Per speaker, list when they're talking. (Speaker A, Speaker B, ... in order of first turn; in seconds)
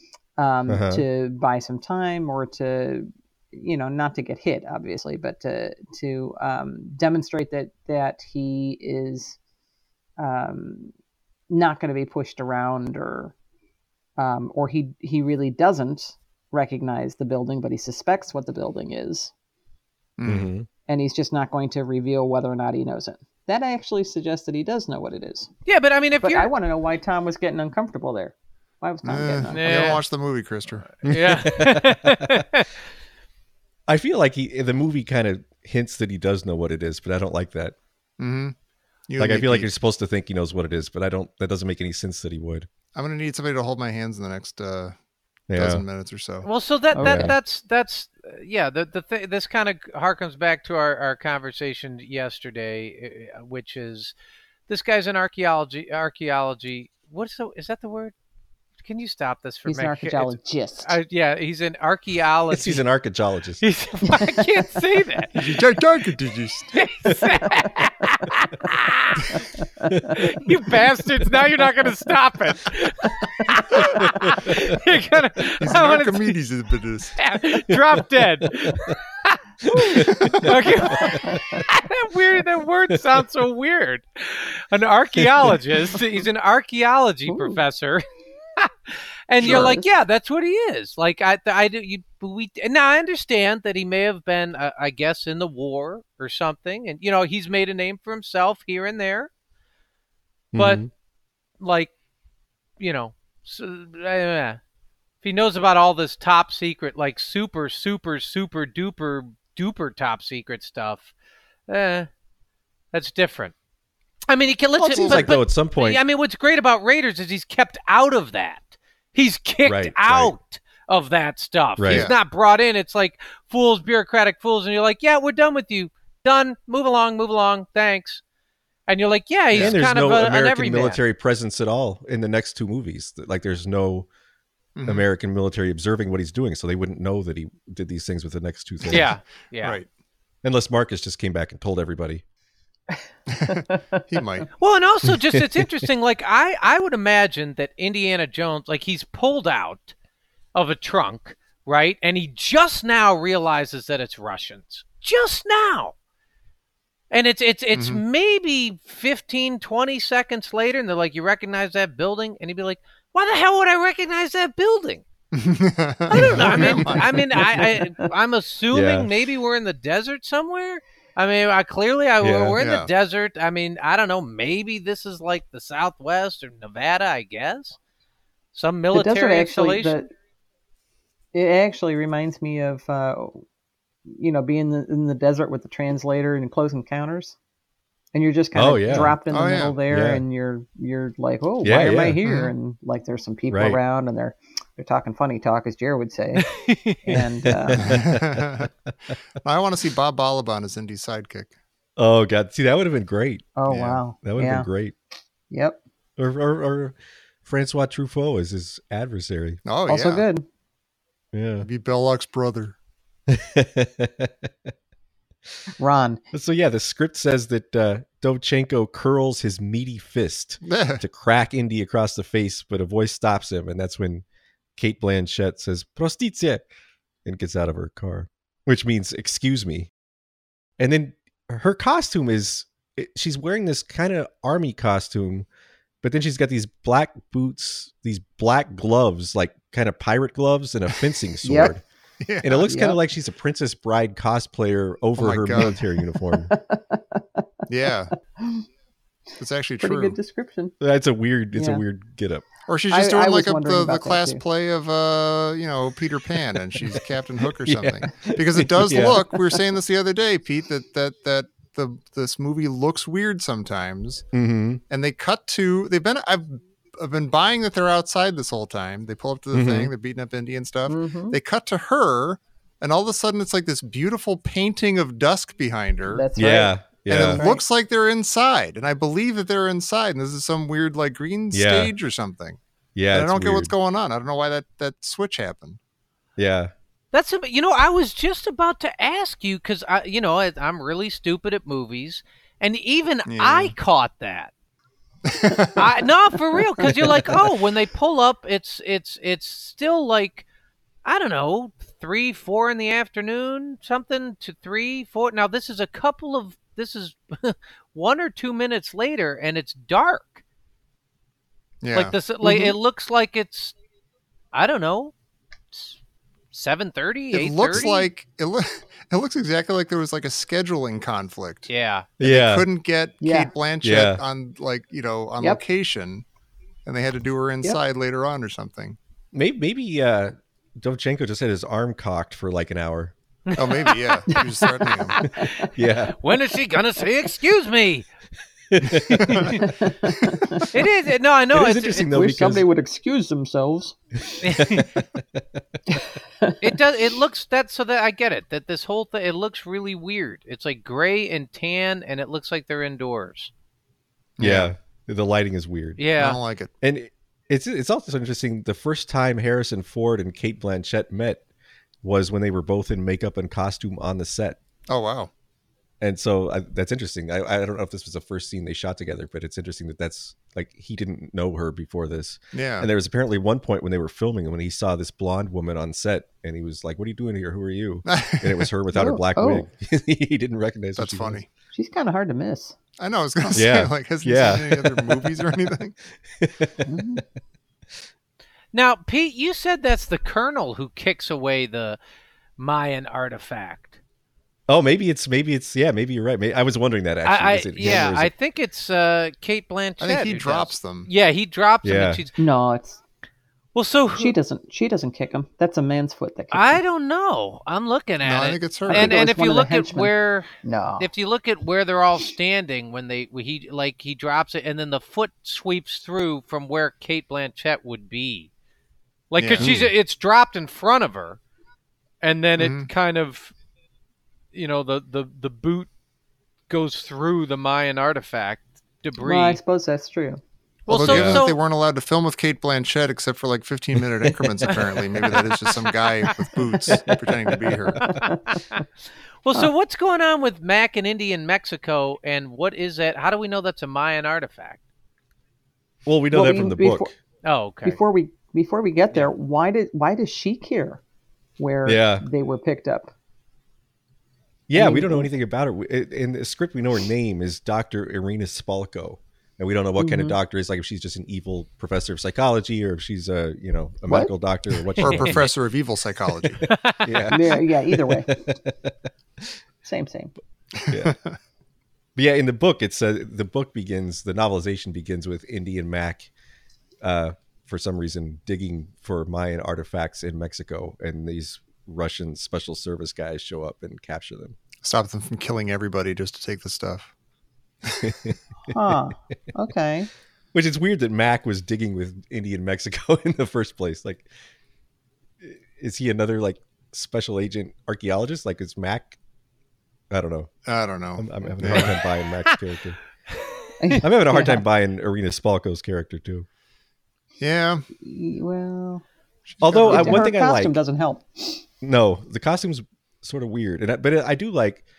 Speaker A: 0.4-9.4, 10.2-10.9, 11.5-13.3, 14.2-19.3, 20.9-25.5, 26.2-30.0, 46.9-47.3, 59.6-61.0, 69.8-70.2, 73.2-73.7, 81.1-81.6, 87.3-87.6, 89.4-89.8, 143.5-144.0, 167.4-168.0, 178.9-180.1, 181.3-183.4, 184.1-187.3, 188.1-196.5, 197.0-197.9, 203.6-204.7, 205.5-205.8, 209.9-210.4, 215.8-216.2, 241.4-241.7, 242.7-243.0, 246.5-247.4, 248.4-248.6, 249.8-250.7, 251.5-251.8, 252.9-254.4, 270.9-271.4, 276.1-277.6, 312.4-312.8, 323.2-323.5, 335.2-335.7, 339.5-340.7, 342.1-344.0, 345.9-346.7, 378.9-379.6, 381.7-382.8, 386.8-387.2, 402.4-403.0, 404.1-406.8, 408.9-410.1, 410.6-411.1, 429.2-430.4, 438.0-438.6, 446.3-447.1, 447.8-451.0, 451.6-453.1, 454.7-455.3, 460.0-460.4, 464.1-464.3, 467.3-468.4, 469.8-470.3, 488.7-490.1, 503.8-504.6, 508.0-509.0, 509.8-511.6
Speaker B: 0.7-1.0, 20.2-20.7, 31.0-32.4, 33.9-37.8, 39.2-42.7, 45.5-45.8, 47.0-47.4, 62.5-63.6, 74.0-74.8, 77.7-79.0, 79.6-81.4, 85.2-85.6, 100.5-100.9, 114.8-116.0, 119.6-120.3, 121.8-122.1, 129.5-134.1, 134.8-139.1, 140.4-142.2, 145.1-145.9, 166.2-166.8, 168.7-169.1, 172.2-172.6, 188.5-189.2, 189.9-190.2, 191.6-192.2, 193.5-193.8, 197.4-198.7, 202.0-204.9, 206.2-209.6, 211.3-211.7, 213.3-214.7, 216.3-224.2, 224.8-226.7, 227.2-229.9, 230.8-235.4, 236.0-241.8, 242.4-246.5, 250.8-252.4, 257.6-259.6, 264.3-264.8, 269.5-269.9, 276.4-277.4, 281.5-281.9, 282.9-283.7, 286.4-286.7, 322.2-322.7, 323.8-324.2, 329.3-333.1, 335.6-336.1, 338.7-339.6, 341.5-342.6, 344.6-345.6, 354.4-356.0, 356.8-361.4, 362.0-364.6, 366.0-381.4, 383.5-385.4, 386.4-387.2, 394.7-398.3, 401.8-402.2, 419.6-419.9, 431.0-431.4, 434.0-434.8, 436.9-437.3, 446.0-447.1, 451.9-452.2, 454.7-465.5, 466.6-469.5, 470.9-471.1, 472.1-476.3, 477.0-484.5, 488.0-488.9, 490.5-494.3, 495.4-499.2, 500.1-500.5, 501.1-503.0, 504.0-506.4, 509.6-510.8, 511.8-514.8
Speaker C: 20.2-20.5, 29.0-30.9, 38.2-38.5, 39.1-39.7, 42.9-44.9, 45.5-46.5, 65.3-66.8, 75.6-77.2, 89.4-89.7, 115.0-115.3, 121.9-122.2, 129.5-129.8, 134.8-135.1, 139.6-139.9, 143.3-144.5, 157.7-158.0, 165.3-167.5, 172.6-172.9, 189.3-189.8, 192.2-192.5, 197.8-198.7, 199.4-201.5, 203.7-204.0, 209.6-210.3, 211.6-212.8, 220.6-221.0, 242.2-242.7, 245.2-245.8, 247.7-248.1, 249.4-250.2, 252.7-264.2, 264.9-276.3, 277.1-282.6, 283.1-285.8, 293.3-293.7, 295.2-295.8, 311.8-312.1, 317.3-321.7, 322.2-326.2, 326.9-329.0, 333.6-335.2, 339.2-339.5, 354.4-354.7, 356.1-356.7, 364.9-365.3, 372.5-372.9, 378.1-378.7, 380.9-381.5, 383.0-385.9, 400.0-401.1, 408.2-409.1, 419.4-419.7, 422.6-422.9, 430.9-438.0, 465.0-466.6, 470.8-471.4, 484.8-487.1, 487.9-488.1, 500.6-501.9, 507.4-507.8, 509.5-510.2
Speaker D: 25.6-26.5, 29.5-30.0, 30.9-32.7, 46.4-54.1, 54.7-58.1, 58.8-62.8, 63.6-65.6, 66.7-69.5, 70.1-76.4, 77.2-88.0, 88.6-99.3, 100.5-100.8, 101.6-101.9, 102.8-104.6, 105.2-111.1, 111.7-112.1, 112.9-113.5, 114.3-128.2, 128.9-131.0, 138.9-139.8, 144.6-149.9, 150.5-155.9, 157.1-165.0, 166.1-177.8, 178.5-179.9, 196.4-197.1, 287.1-294.5, 295.8-300.4, 301.0-310.4, 311.9-313.7, 314.5-315.1, 315.7-316.0, 316.5-318.1, 321.7-322.1, 333.5-334.4, 335.2-338.1, 339.2-339.6, 340.7-342.1, 344.4-344.9, 346.6-353.5, 356.0-356.4, 388.7-392.0, 392.6-394.0, 397.2-402.4, 403.7-404.3, 406.5-418.5, 419.3-421.4, 422.2-423.5, 424.5-425.9, 426.7-429.6, 430.9-431.6, 438.5-438.8, 439.4-444.8, 447.4-448.0, 465.0-465.4, 466.6-467.6